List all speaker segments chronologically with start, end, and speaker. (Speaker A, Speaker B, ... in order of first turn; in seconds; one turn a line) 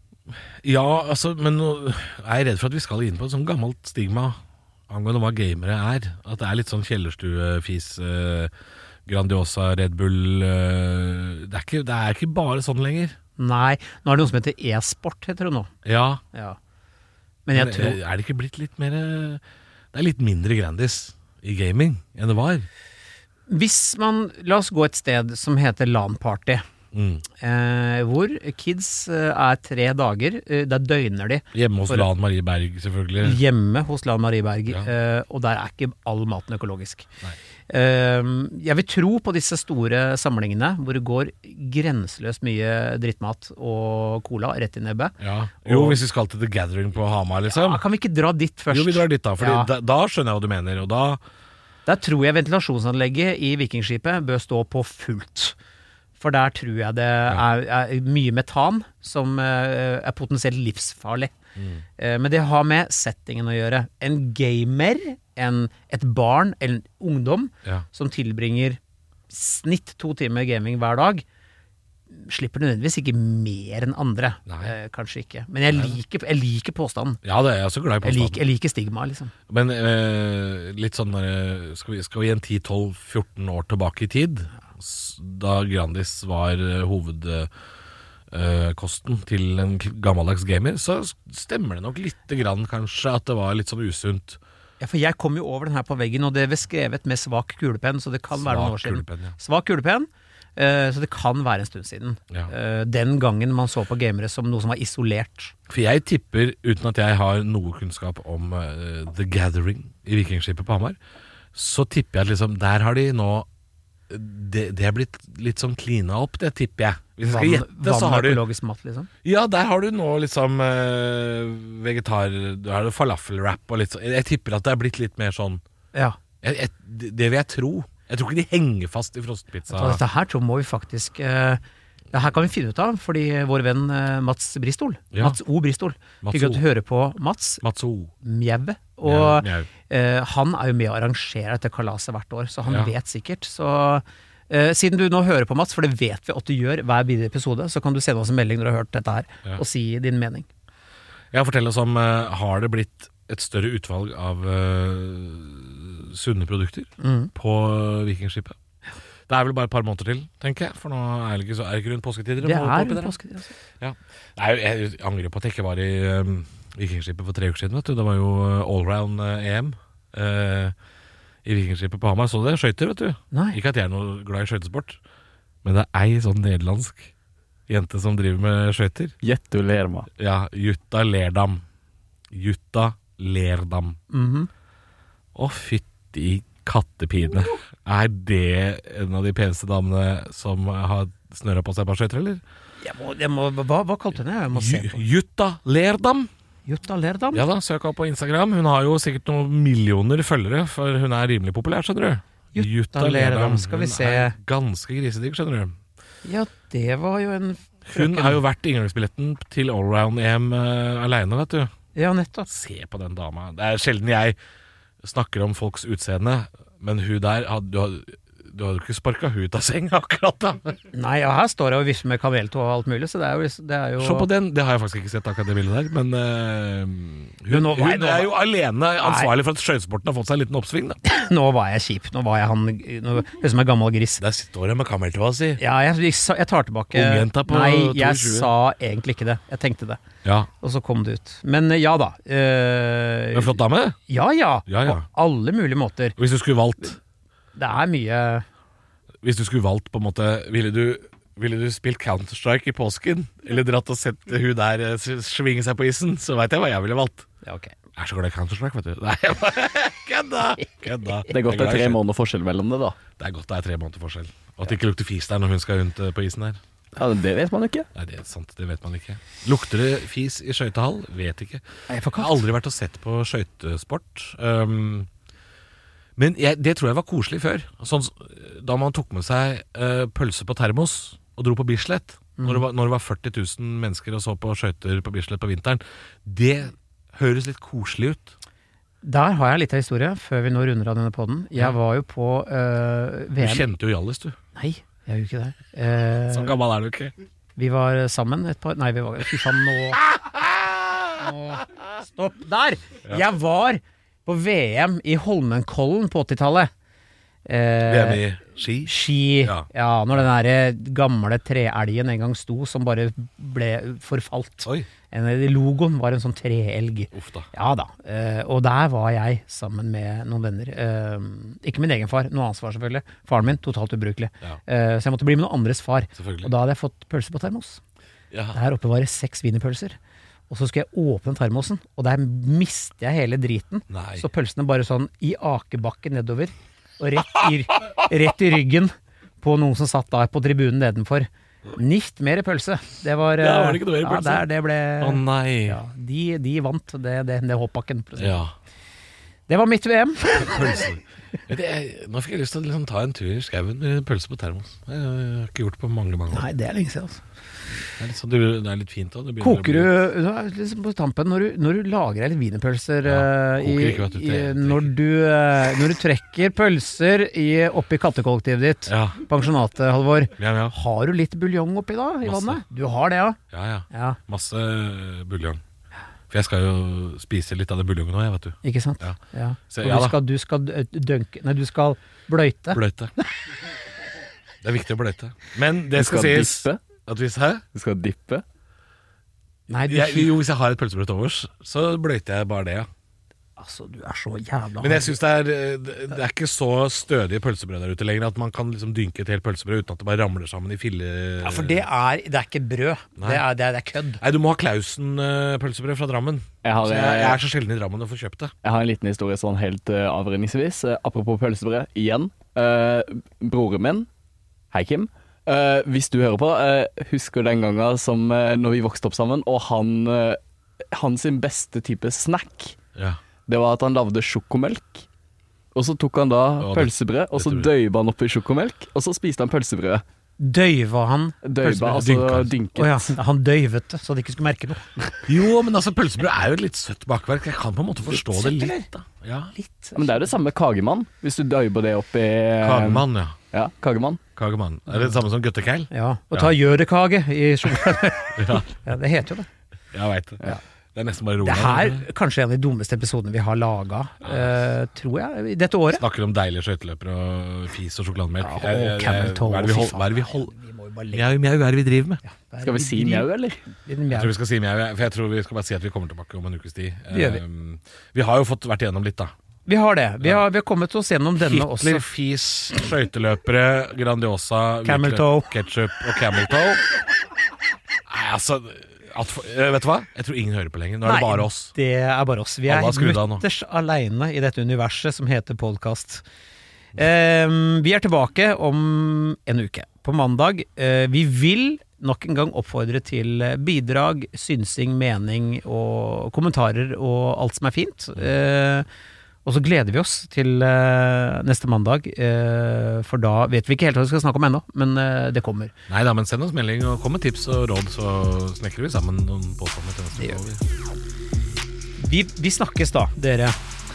Speaker A: 0.6-4.4
Speaker A: 4.9-8.5
Speaker A: 9.1-13.2
Speaker B: 13.4-15.7
Speaker A: 15.8-16.2
Speaker B: 16.3-16.6
Speaker B: 17.5-18.0
Speaker A: 17.5-19.4
Speaker A: 19.9-22.7
Speaker B: 23.5-26.6
Speaker A: 26.9-27.2
Speaker B: 27.4-32.1
Speaker A: 31.5-33.4
Speaker B: 33.2-37.1
Speaker B: 37.7-46.0
Speaker A: 45.2-47.8
Speaker B: 47.5-49.7
Speaker A: 48.7-51.2
Speaker B: 51.9-55.5
Speaker B: 56.2-61.3
Speaker A: 61.5-61.8
Speaker B: 62.0-71.2
Speaker B: 72.1-77.2
Speaker A: 74.5-74.7
Speaker A: 75.7-76.0
Speaker A: 77.2-78.4
Speaker B: 78.0-79.3
Speaker A: 79.5-87.5
Speaker A: 88.3-94.4
Speaker B: 94.8-105.5
Speaker A: 98.3-99.4
Speaker A: 105.7-111.0
Speaker A: 111.5-113.5
Speaker A: 114.1-118.4
Speaker B: 117.2-119.1
Speaker A: 119.2-125.6
Speaker A: 126.4-130.0
Speaker B: 129.7-137.6
Speaker A: 136.2-136.6
Speaker A: 137.6-138.1
Speaker B: 138.2-150.5
Speaker A: 139.0-139.7
Speaker A: 142.7-142.9
Speaker A: 151.3-158.6
Speaker B: 157.0-157.3
Speaker A: 159.3-163.2
Speaker B: 162.4-163.5
Speaker A: 163.8-170.7
Speaker A: 171.4-175.0
Speaker B: 173.3-173.6
Speaker A: 175.6-177.1
Speaker A: 177.7-179.2
Speaker C: 179.2-180.1
Speaker A: 180.2-181.6
Speaker A: 182.3-184.0
Speaker B: 184.1-184.5
Speaker A: 185.3-192.4
Speaker B: 192.8-195.0
Speaker A: 194.5-196.3
Speaker B: 196.7-197.4
Speaker A: 197.3-205.7
Speaker B: 202.5-204.3
Speaker B: 206.2-208.4
Speaker A: 207.9-211.7
Speaker B: 211.9-212.5
Speaker A: 212.5-214.3
Speaker A: 215.0-220.8
Speaker B: 220.9-224.3
Speaker A: 224.0-231.0
Speaker B: 227.5-228.3
Speaker B: 229.0-229.3
Speaker B: 231.0-234.2
Speaker A: 234.2-235.6
Speaker B: 235.6-240.0
Speaker A: 236.9-238.5
Speaker A: 240.2-240.5
Speaker B: 240.6-243.5
Speaker A: 243.3-244.0
Speaker B: 244.1-246.2
Speaker A: 244.7-245.0
Speaker A: 246.2-247.0
Speaker B: 247.6-248.4
Speaker A: 249.2-257.3
Speaker B: 257.4-257.7
Speaker A: 257.9-262.0
Speaker C: 261.3-263.0
Speaker A: 263.1-266.6
Speaker C: 266.9-267.9
Speaker A: 267.9-275.1
Speaker B: 271.9-272.4
Speaker A: 276.2-288.4
Speaker B: 282.4-282.6
Speaker B: 289.0-293.6
Speaker A: 293.4-294.4
Speaker B: 294.5-296.5
Speaker A: 296.3-297.1
Speaker B: 297.6-300.0
Speaker A: 300.3-300.7
Speaker B: 301.2-306.7
Speaker B: 307.4-308.2
Speaker A: 307.8-309.7
Speaker B: 308.8-327.8
Speaker A: 317.1-317.5
Speaker A: 326.1-326.5
Speaker A: 328.3-328.6
Speaker B: 328.5-330.0
Speaker B: 330.5-348.4
Speaker A: 333.9-334.2
Speaker A: 343.4-344.4
Speaker A: 345.0-345.8
Speaker A: 348.2-348.5
Speaker B: 349.5-350.8
Speaker A: 350.4-356.4
Speaker B: 356.3-357.2
Speaker A: 358.0-360.0
Speaker B: 359.4-373.4
Speaker A: 363.0-364.9
Speaker A: 368.9-369.2
Speaker A: 370.4-370.7
Speaker A: 372.2-372.6
Speaker A: 373.5-375.6
Speaker B: 373.9-374.2
Speaker A: 376.3-379.2
Speaker B: 378.6-382.8
Speaker A: 379.7-380.2
Speaker A: 382.7-383.1
Speaker A: 384.6-387.6
Speaker C: 385.9-386.8
Speaker C: 387.7-388.4
Speaker B: 389.7-390.4
Speaker A: 389.9-392.9
Speaker B: 393.6-395.1
Speaker A: 394.8-401.8
Speaker B: 401.4-404.2
Speaker A: 403.2-403.4
Speaker A: 404.2-408.5
Speaker C: 406.6-407.4
Speaker C: 408.6-414.1
Speaker C: 414.7-420.4
Speaker C: 420.9-422.8
Speaker C: 423.5-425.1
Speaker C: 425.7-430.0
Speaker A: 426.6-427.7
Speaker B: 430.4-432.1
Speaker C: 431.4-433.1
Speaker A: 431.7-432.5
Speaker B: 432.7-435.3
Speaker A: 435.3-439.5
Speaker B: 438.1-438.9
Speaker B: 439.5-440.3
Speaker C: 439.9-444.2
Speaker A: 442.6-443.4
Speaker A: 444.4-446.5
Speaker B: 445.9-449.5
Speaker A: 448.4-448.7
Speaker A: 449.9-452.1
Speaker B: 451.4-456.0
Speaker A: 454.2-454.5
Speaker A: 455.9-460.5
Speaker B: 458.4-461.2
Speaker A: 461.1-462.2
Speaker B: 462.2-464.3
Speaker C: 462.6-463.6
Speaker A: 464.1-469.3
Speaker B: 467.1-467.4
Speaker B: 469.7-472.1
Speaker A: 471.4-476.8
Speaker B: 474.8-475.5
Speaker A: 478.1-481.7
Speaker B: 481.0-486.2
Speaker A: 482.7-483.4
Speaker B: 486.9-498.9
Speaker B: 499.4-505.7
Speaker A: 505.9-510.6
Speaker B: 512.0-513.6